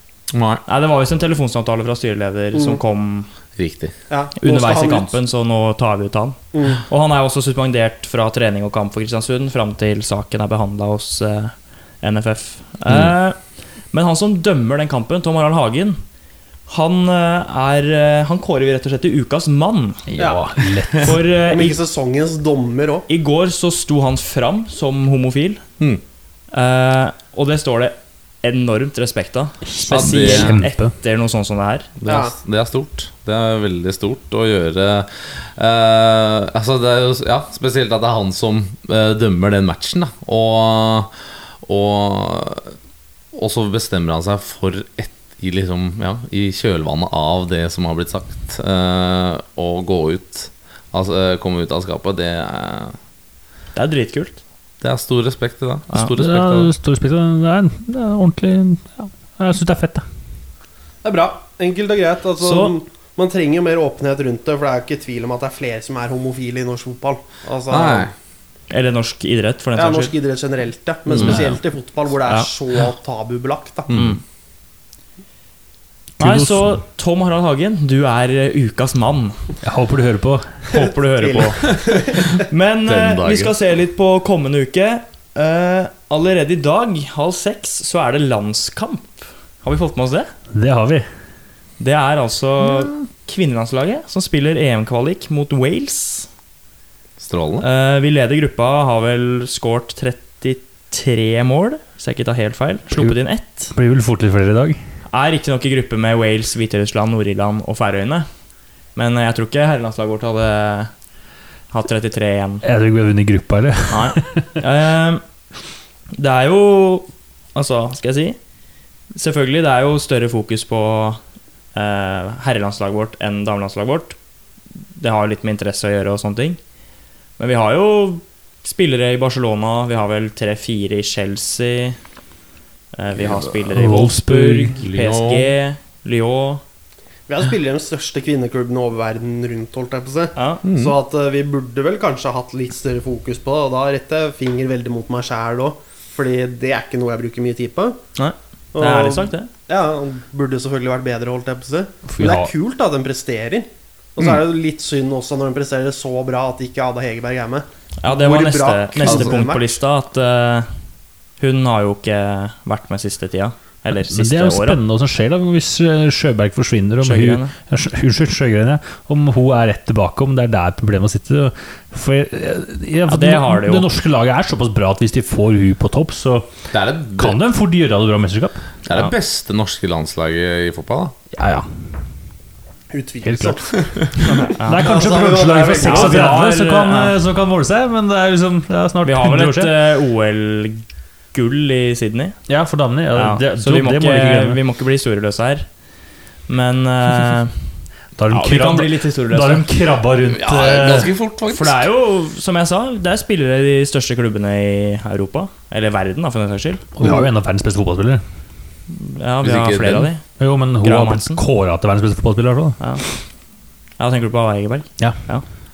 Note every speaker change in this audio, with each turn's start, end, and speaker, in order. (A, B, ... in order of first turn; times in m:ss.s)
0:00.3-0:00.6 A
0:00.7-0:03.3 B
0:02.5-0:02.8 C
0:03.6-0:03.9 A
0:04.1-0:05.2 C
0:04.4-0:13.4 B
0:06.5-0:06.8 C
0:12.9-0:13.2 A
0:13.9-0:16.0 B
0:16.7-0:20.1 B
0:20.1-0:21.2 D
0:21.0-0:21.8 B
0:21.5-0:23.1 C
0:23.1-0:25.6 B
0:26.5-0:31.9 B
0:29.6-0:30.9 D
0:29.9-0:30.6 A
0:32.0-0:42.8 A
0:32.1-0:32.4 C
0:43.3-0:53.0 A
0:53.8-0:54.4 B
0:54.8-0:56.7 A
0:56.2-1:00.0 D
1:01.0-1:08.1 C
1:02.4-1:02.7 B
1:07.7-1:08.1 A
1:08.7-1:10.1 B
1:09.8-1:13.9 C
1:11.1-1:11.5 A
1:13.9-1:14.2 A
1:13.9-1:14.2 B
1:16.2-1:16.8 D
1:16.2-1:19.4 B
1:19.6-1:20.5 D
1:20.7-1:30.3 B
1:20.7-1:22.4 C
1:22.9-1:23.5 A
1:30.5-1:31.1 D
1:31.8-1:36.3 B
1:37.2-1:37.7 A
1:37.6-1:43.7 B
1:43.7-1:44.8 D
1:45.1-1:48.3 B
1:49.0-1:50.9 B
1:51.7-1:52.6 B
1:52.6-1:54.6 D
1:53.9-1:55.2 B
1:56.1-1:58.4 B
1:59.2-2:01.2 B
2:01.7-2:04.2 B
2:05.0-2:06.6 B
2:07.4-2:12.0 B
2:12.9-2:16.6 B
2:13.7-2:14.8 D
2:14.8-2:15.5 A
2:17.3-2:28.0 C
2:20.4-2:20.6 B
2:20.6-2:20.9 A
2:28.2-2:29.5 B
2:28.7-2:39.6 C
2:32.1-2:32.5 D
2:38.0-2:40.8 B
2:39.0-2:39.3 A
2:41.4-2:44.8 B
2:44.0-2:58.6 D
2:47.0-2:47.5 B
2:53.1-2:53.9 B
2:56.7-2:57.4 A
2:58.8-3:01.2 A
3:01.3-3:01.9 D
3:02.9-3:06.4 C
3:03.2-3:03.7 D
3:04.4-3:09.7 D
3:04.5-3:04.9 B
3:05.8-3:07.2 B
3:09.0-3:12.4 B
3:12.5-3:14.6 D
3:13.1-3:15.8 B
3:16.5-3:17.8 B
3:18.2-3:21.1 D
3:18.3-3:19.7 B
3:20.3-3:21.9 A
3:21.5-3:26.9 B
3:27.0-3:28.2 D
3:27.0-3:27.3 C
3:28.9-3:30.2 B
3:29.4-3:30.1 A
3:30.4-3:32.8 D
3:30.8-3:31.4 B
3:32.8-3:33.1 B
3:34.0-3:35.4 B